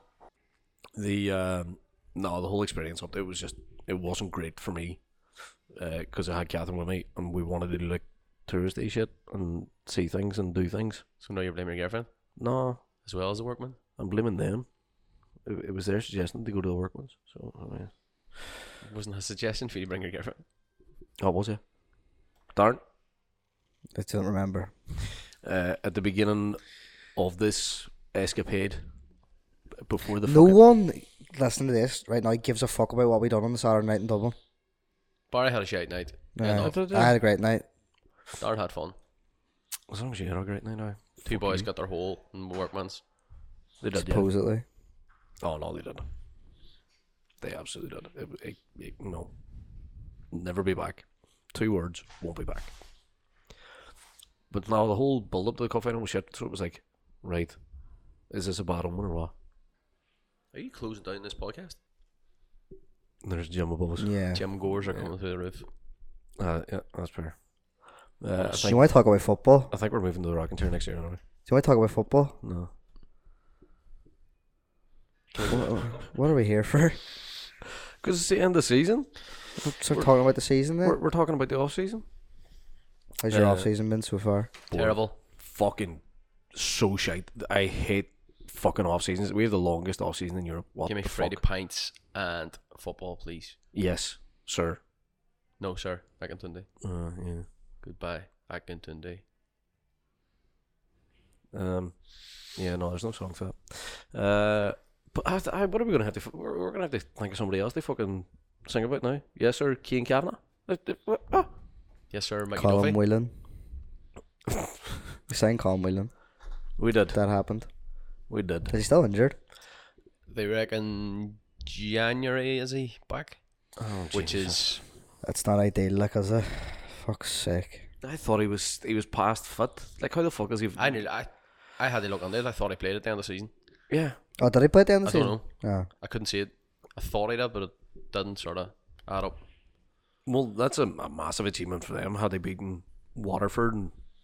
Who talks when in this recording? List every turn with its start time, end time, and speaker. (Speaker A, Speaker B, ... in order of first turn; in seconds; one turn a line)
Speaker A: 0.9-11.0
Speaker B: 11.2-12.1
Speaker A: 12.3-12.8
Speaker B: 13.0-13.8
Speaker A: 14.0-14.7
Speaker A: 15.4-18.4
Speaker B: 18.8-20.4
Speaker A: 21.2-21.7
Speaker A: 22.5-22.8
Speaker C: 23.9-24.7
Speaker A: 25.4-28.9
Speaker A: 29.8-30.6
Speaker C: 30.2-34.4
Speaker B: 35.3-36.9
Speaker C: 36.4-37.6
Speaker A: 36.5-37.2
Speaker B: 38.4-39.0
Speaker A: 39.9-41.7
Speaker B: 41.2-43.0
Speaker A: 43.8-44.3
Speaker C: 43.9-44.6
Speaker A: 45.4-46.1
Speaker A: 47.4-49.3
Speaker A: 50.3-52.7
Speaker A: 54.5-57.6
Speaker A: 58.3-59.3
Speaker B: 60.5-61.8
Speaker A: 63.2-64.1
Speaker C: 64.0-64.4
Speaker B: 64.3-65.7
Speaker A: 64.8-65.1
Speaker A: 66.4-68.9
Speaker B: 68.4-68.6
Speaker C: 68.6-69.7
Speaker A: 69.7-71.2
Speaker C: 71.5-72.4
Speaker A: 72.4-72.7
Speaker B: 75.3-75.8
Speaker C: 75.4-77.0
Speaker A: 78.0-80.1
Speaker C: 79.6-81.0
Speaker A: 80.8-82.0
Speaker C: 83.2-84.5
Speaker A: 83.3-83.7
Speaker A: 84.7-91.4
Speaker B: 84.7-85.2
Speaker B: 90.8-93.6
Speaker A: 93.7-94.8
Speaker B: 95.6-96.7
Speaker A: 96.8-97.5
Speaker B: 97.8-99.2
Speaker A: 101.5-111.5
Speaker B: 112.1-113.0
Speaker C: 112.5-113.3
Speaker C: 115.3-116.1
Speaker A: 116.8-117.2
Speaker C: 117.1-117.7
Speaker A: 118.3-118.7
Speaker C: 118.7-119.4
Speaker B: 120.3-124.8
Speaker A: 123.8-124.7
Speaker C: 125.2-127.9
Speaker A: 128.0-131.0
Speaker B: 130.8-133.5
Speaker A: 133.9-134.2
Speaker C: 134.4-135.9
Speaker B: 135.0-139.4
Speaker A: 140.2-143.9